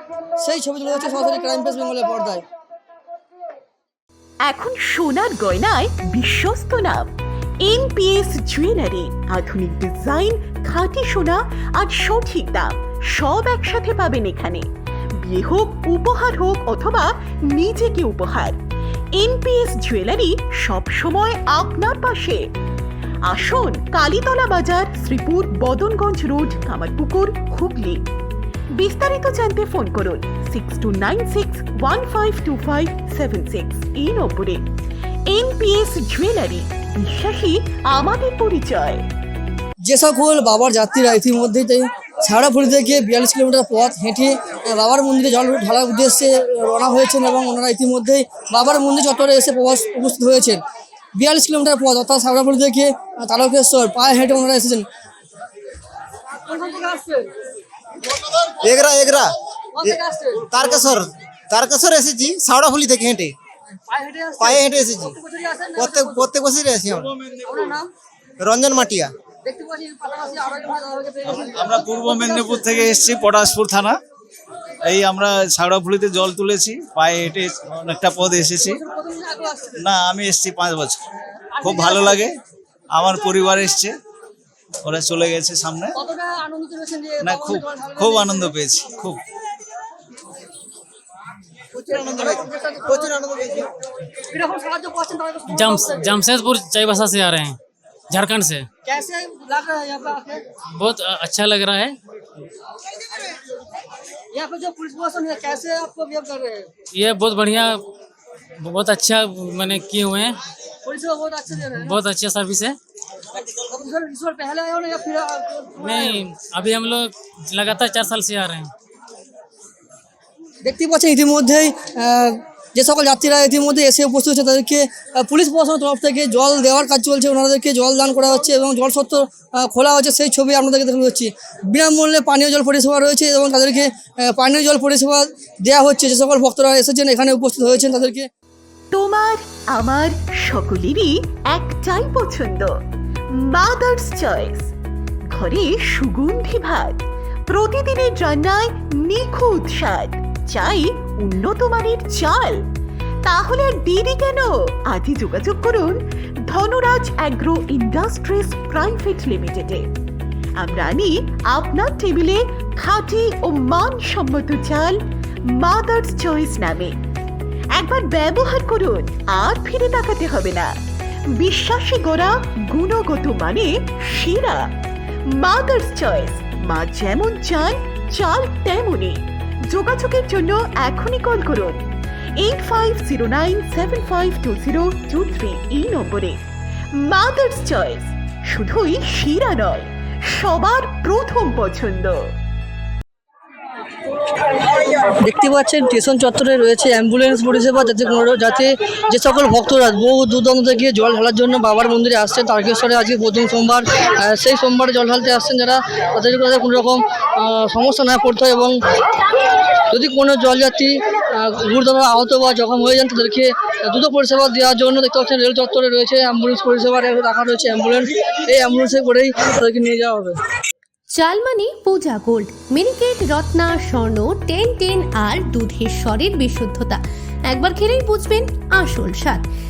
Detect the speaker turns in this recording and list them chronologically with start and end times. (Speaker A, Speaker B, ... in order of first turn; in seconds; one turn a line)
Speaker A: 0.4-2.4
Speaker B: 4.4-7.1
Speaker B: 7.6-14.7
Speaker B: 15.2-18.6
Speaker B: 19.1-22.4
Speaker B: 23.3-28.0
Speaker B: 28.8-34.7
Speaker B: 35.3-39.0
Speaker A: 39.8-50.6
Speaker A: 51.1-54.8
Speaker A: 56.4-57.3
Speaker C: 58.4-59.3
Speaker A: 59.8-60.9
Speaker C: 60.5-63.3
Speaker A: 63.7-66.3
Speaker C: 64.4-65.2
Speaker C: 65.8-67.1
Speaker D: 67.1-67.4
Speaker A: 67.5-67.8
Speaker C: 68.4-69.1
Speaker A: 69.4-73.1
Speaker D: 71.3-74.0
Speaker D: 74.8-78.8
Speaker A: 78.6-79.8
Speaker D: 79.8-81.0
Speaker A: 81.6-82.3
Speaker D: 81.6-82.3
Speaker D: 82.9-84.0
Speaker D: 84.8-85.9
Speaker A: 85.9-88.6
Speaker D: 87.2-89.2
Speaker C: 91.8-93.6
Speaker A: 91.8-93.3
Speaker A: 94.3-96.2
Speaker E: 95.5-97.6
Speaker E: 98.1-98.7
Speaker A: 98.8-100.4
Speaker E: 100.8-102.0
Speaker A: 104.3-106.7
Speaker E: 106.9-107.8
Speaker E: 108.6-110.4
Speaker A: 110.8-112.0
Speaker E: 111.6-112.8
Speaker A: 113.5-116.2
Speaker E: 115.8-118.7
Speaker A: 120.6-138.3
Speaker B: 138.9-142.7
Speaker B: 143.3-144.7
Speaker B: 145.3-152.6
Speaker B: 153.2-159.9
Speaker B: 160.6-165.0
Speaker B: 165.5-167.0
Speaker B: 167.7-170.7
Speaker B: 171.3-174.6
Speaker B: 175.3-181.8
Speaker B: 182.4-186.4
Speaker B: 187.0-192.2
Speaker A: 195.2-208.8
Speaker A: 209.9-220.3
Speaker F: 221.2-229.4